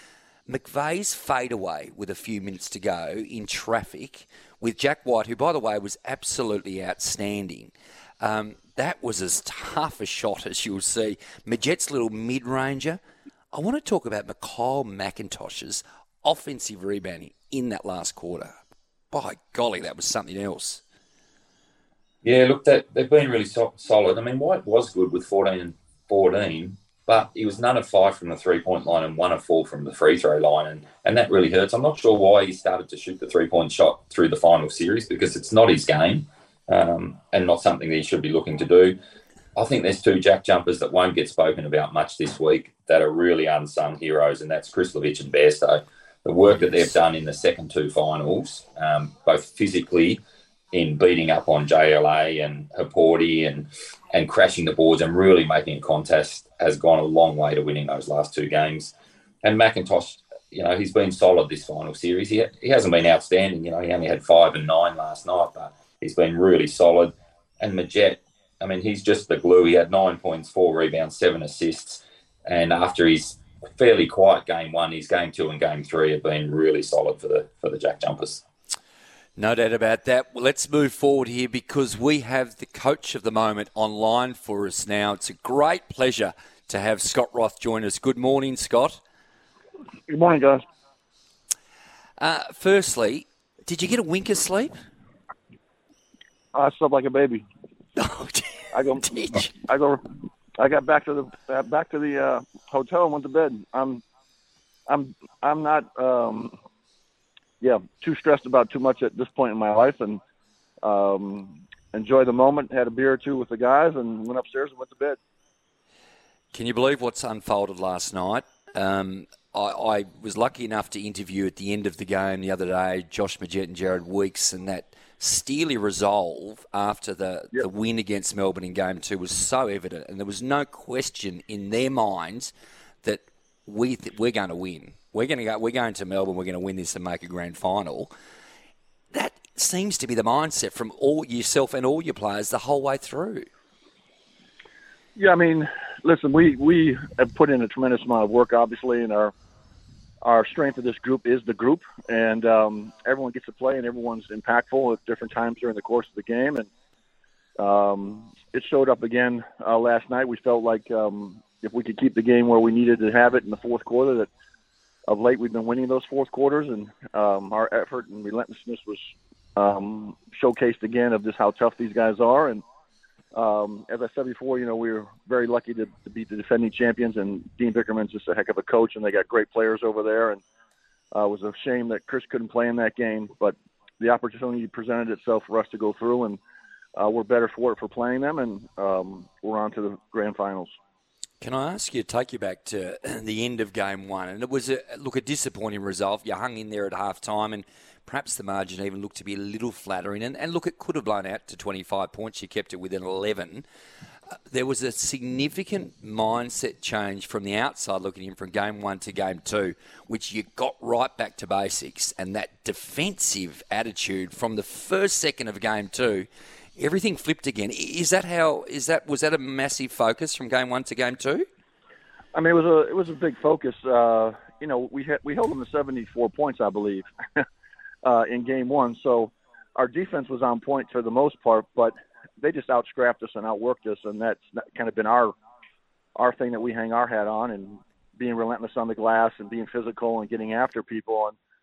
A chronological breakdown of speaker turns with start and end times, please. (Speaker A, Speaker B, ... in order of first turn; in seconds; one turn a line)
Speaker A: 0.5-13.0
Speaker A: 13.5-18.5
Speaker A: 19.1-20.8
Speaker B: 22.2-39.0
Speaker B: 39.5-50.2
Speaker A: 46.5-46.9
Speaker B: 50.7-78.4
Speaker A: 79.4-89.0
Speaker C: 90.1-90.6
Speaker A: 92.2-94.8
Speaker C: 96.5-97.5
Speaker A: 98.0-99.5
Speaker C: 98.7-100.0
Speaker C: 100.6-104.0
Speaker C: 104.9-106.5
Speaker C: 107.6-110.2
Speaker C: 110.8-115.2
Speaker A: 116.5-132.5
Speaker A: 133.0-138.1
Speaker A: 139.1-143.5
Speaker C: 145.1-149.3
Speaker C: 150.2-156.7
Speaker C: 157.6-164.3
Speaker C: 165.1-172.6
Speaker C: 173.3-180.4
Speaker C: 181.1-186.4
Speaker C: 186.9-190.7
Speaker A: 191.4-203.7
Speaker A: 204.5-221.4
Speaker C: 222.3-227.4
Speaker C: 228.0-235.3
Speaker C: 236.2-241.3